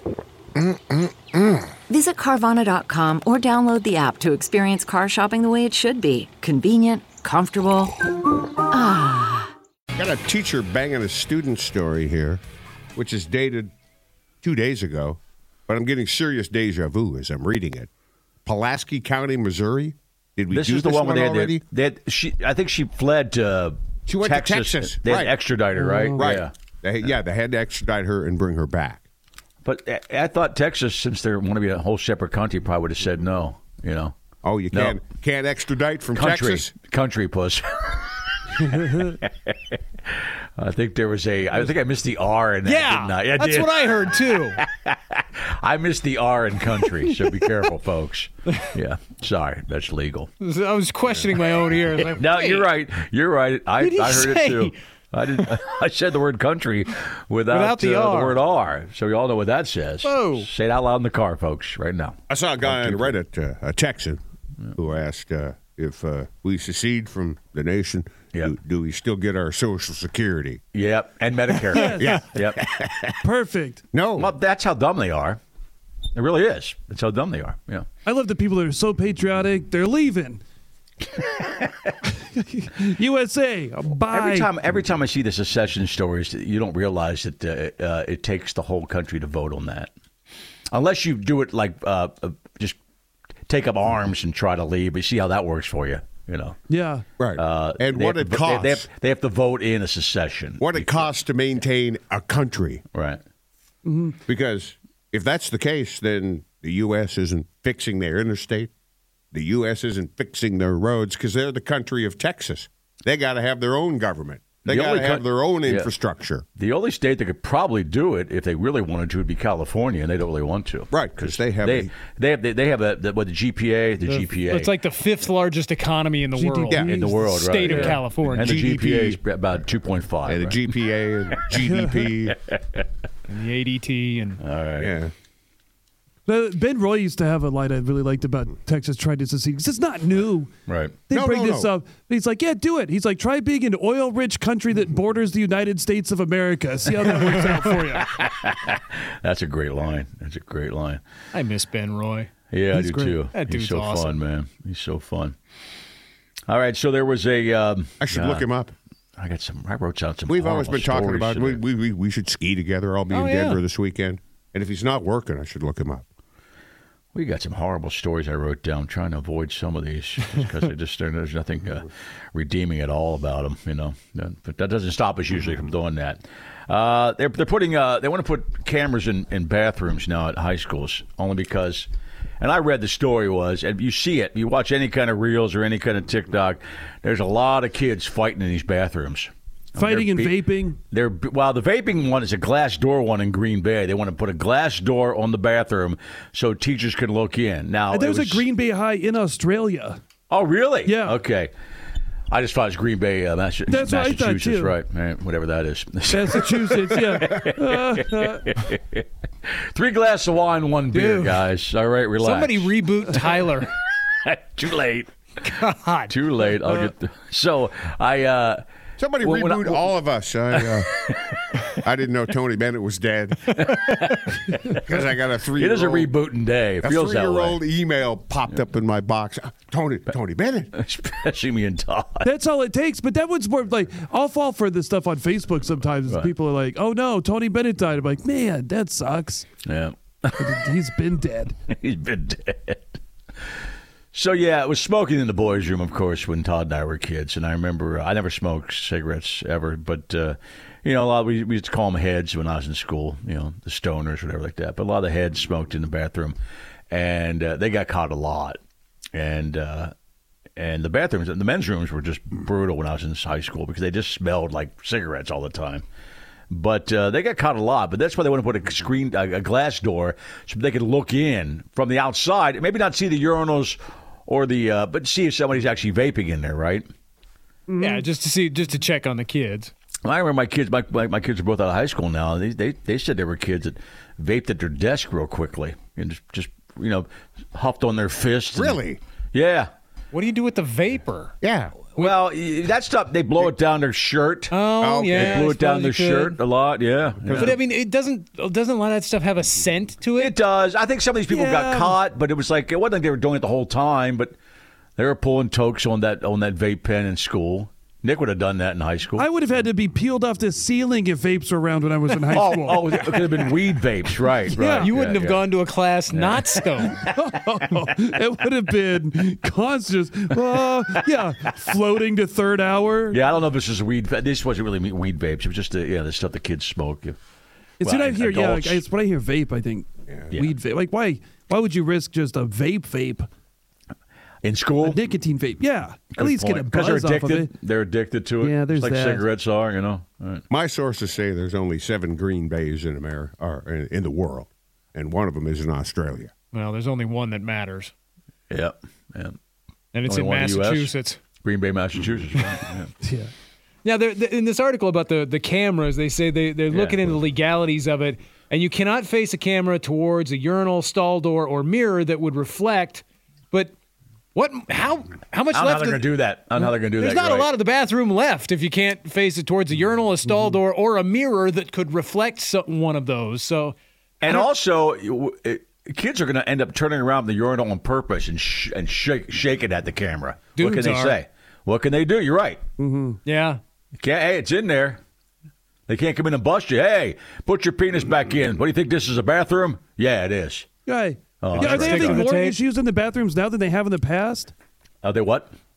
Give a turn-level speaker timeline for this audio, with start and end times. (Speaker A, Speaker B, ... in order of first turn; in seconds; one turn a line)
Speaker A: 1.9-7.9
Speaker A: 8.7-9.5
Speaker B: 10.0-12.4
Speaker B: 13.0-13.7
Speaker B: 14.4-17.9
Speaker B: 18.4-21.6
Speaker C: 20.5-26.5
Speaker B: 24.1-25.4
Speaker D: 25.8-26.2
Speaker B: 26.1-29.0
Speaker C: 29.6-34.1
Speaker B: 34.4-36.7
Speaker C: 34.7-35.0
Speaker C: 36.1-39.8
Speaker C: 40.6-50.3
Speaker E: 42.6-44.6
Speaker E: 50.4-52.7
Speaker C: 52.1-63.2
Speaker E: 53.8-54.8
Speaker E: 57.5-58.4
Speaker E: 60.0-60.5
Speaker B: 62.3-64.2
Speaker B: 64.8-70.6
Speaker C: 70.7-72.6
Speaker D: 71.7-72.2
Speaker B: 71.8-73.2
Speaker D: 73.2-73.8
Speaker B: 73.9-74.3
Speaker C: 74.2-75.4
Speaker C: 76.2-77.9
Speaker D: 78.0-80.4
Speaker D: 82.1-84.5
Speaker C: 84.1-89.9
Speaker C: 90.7-92.8
Speaker C: 93.5-96.6
Speaker D: 96.7-97.0
Speaker B: 97.2-98.9
Speaker C: 97.4-101.1
Speaker B: 100.6-102.8
Speaker C: 102.9-103.2
Speaker D: 103.8-104.2
Speaker B: 104.3-108.7
Speaker B: 109.3-116.5
Speaker C: 114.7-115.9
Speaker C: 116.6-124.7
Speaker B: 120.9-121.9
Speaker E: 124.0-128.7
Speaker D: 126.3-128.0
Speaker C: 126.9-130.7
Speaker B: 128.2-129.2
Speaker B: 130.2-132.4
Speaker D: 131.6-132.1
Speaker C: 132.5-132.8
Speaker E: 133.3-134.4
Speaker C: 134.4-134.9
Speaker B: 134.8-135.1
Speaker D: 136.3-140.5
Speaker C: 140.7-141.0
Speaker D: 141.1-148.1
Speaker B: 141.1-141.7
Speaker C: 146.9-151.0
Speaker E: 151.3-152.3
Speaker C: 152.5-155.4
Speaker D: 152.7-153.2
Speaker E: 153.3-154.1
Speaker C: 156.5-158.5
Speaker B: 158.0-158.7
Speaker C: 159.2-161.6
Speaker B: 160.3-166.0
Speaker E: 163.1-163.6
Speaker C: 167.1-181.9
Speaker C: 182.4-198.5
Speaker D: 189.8-190.8
Speaker D: 197.9-200.0
Speaker C: 200.3-201.5
Speaker D: 200.8-201.2
Speaker C: 202.3-213.5
Speaker D: 203.7-204.8
Speaker D: 206.1-208.5
Speaker E: 210.9-211.4
Speaker E: 212.2-213.7
Speaker C: 214.2-215.1
Speaker E: 215.4-216.8
Speaker C: 216.1-218.6
Speaker B: 219.0-220.9
Speaker C: 219.2-219.9
Speaker C: 220.6-221.4
Speaker B: 221.7-223.4
Speaker C: 223.5-225.0
Speaker E: 223.9-224.3
Speaker B: 224.8-226.1
Speaker C: 225.6-227.6
Speaker B: 226.8-230.7
Speaker C: 230.7-232.3
Speaker D: 232.2-239.5
Speaker C: 236.1-236.3
Speaker C: 239.7-240.8
Speaker D: 240.4-241.6
Speaker C: 241.7-243.0
Speaker C: 244.1-256.4
Speaker C: 256.9-258.6
Speaker C: 259.1-259.9
Speaker C: 260.6-265.8
Speaker C: 266.5-276.9
Speaker D: 277.7-278.1
Speaker E: 277.8-279.7
Speaker C: 280.1-289.7
Speaker B: 288.6-289.0
Speaker E: 290.1-291.3
Speaker B: 291.4-291.8
Speaker C: 291.9-294.5
Speaker E: 294.5-296.4
Speaker B: 294.8-295.5
Speaker C: 295.1-297.6
Speaker B: 297.2-297.6
Speaker E: 297.3-300.4
Speaker C: 300.2-304.4
Speaker D: 301.3-302.0
Speaker C: 305.0-309.3
Speaker D: 309.2-313.4
Speaker C: 312.1-315.5
Speaker D: 314.5-314.9
Speaker E: 314.8-317.1
Speaker C: 316.1-317.5
Speaker D: 317.0-323.2
Speaker C: 320.6-321.2
Speaker C: 323.1-327.2
Speaker C: 327.8-328.9
Speaker D: 327.8-333.3
Speaker C: 330.3-330.6
Speaker C: 334.4-335.1
Speaker D: 334.8-337.5
Speaker C: 336.1-340.4
Speaker D: 338.4-339.3
Speaker B: 340.5-346.3
Speaker E: 346.5-347.9
Speaker C: 348.5-349.4
Speaker E: 349.9-351.2
Speaker C: 350.1-352.9
Speaker D: 353.0-353.3
Speaker E: 353.8-363.7
Speaker C: 356.7-357.1
Speaker E: 364.3-374.5
Speaker C: 365.5-367.5
Speaker C: 374.2-382.6
Speaker E: 380.6-381.2
Speaker D: 382.8-383.2
Speaker E: 383.2-383.6
Speaker C: 383.9-385.0
Speaker C: 385.9-390.7
Speaker D: 390.9-394.5
Speaker C: 391.4-392.3
Speaker E: 391.6-392.6
Speaker C: 395.0-395.5